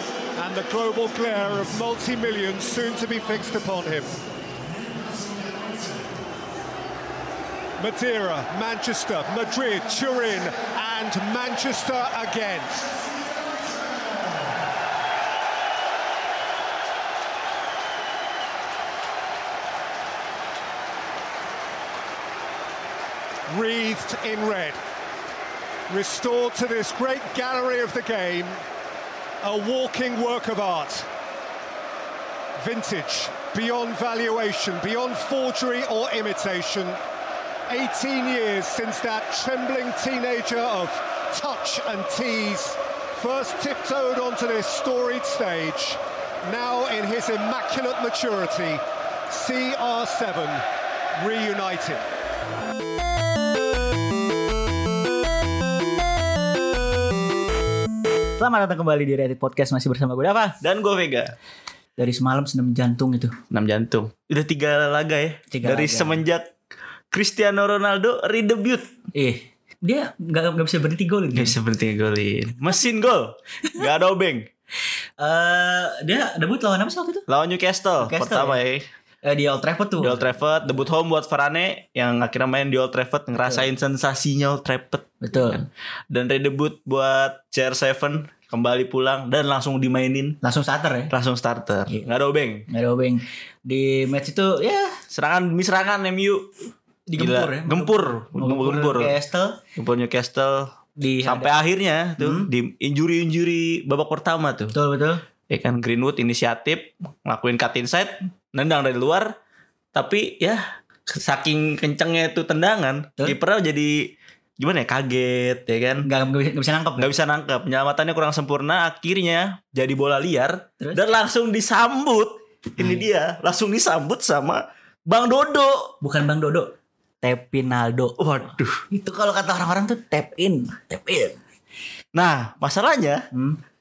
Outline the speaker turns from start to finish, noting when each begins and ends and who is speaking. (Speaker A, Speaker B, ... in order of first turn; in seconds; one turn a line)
Speaker A: 0.4-4.2
Speaker A: 7.8-12.9
Speaker A: 23.5-24.8
Speaker A: 25.9-28.6
Speaker A: 29.4-31.1
Speaker A: 32.6-37.0
Speaker A: 37.7-50.6
Speaker A: 51.1-52.0
Speaker B: 58.4-60.6
Speaker C: 60.6-61.3
Speaker B: 62.0-63.4
Speaker C: 63.5-66.5
Speaker B: 65.5-66.2
Speaker C: 67.1-68.9
Speaker B: 69.1-71.5
Speaker C: 71.3-74.5
Speaker B: 75.2-77.2
Speaker C: 77.3-78.8
Speaker B: 78.0-78.6
Speaker B: 79.2-80.3
Speaker C: 80.0-90.4
Speaker B: 83.4-83.7
Speaker B: 85.2-85.7
Speaker B: 90.4-91.1
Speaker C: 91.1-92.7
Speaker B: 91.9-92.1
Speaker B: 92.7-95.0
Speaker C: 95.1-96.5
Speaker B: 97.1-99.6
Speaker C: 97.2-99.2
Speaker C: 99.8-100.7
Speaker B: 101.0-101.5
Speaker C: 101.2-104.7
Speaker B: 102.2-102.5
Speaker B: 104.7-105.2
Speaker C: 105.5-109.3
Speaker C: 109.9-116.1
Speaker B: 116.0-117.1
Speaker C: 117.0-125.9
Speaker B: 122.8-123.0
Speaker B: 126.0-128.2
Speaker C: 128.2-128.8
Speaker B: 128.9-131.4
Speaker C: 132.1-133.2
Speaker B: 133.3-133.6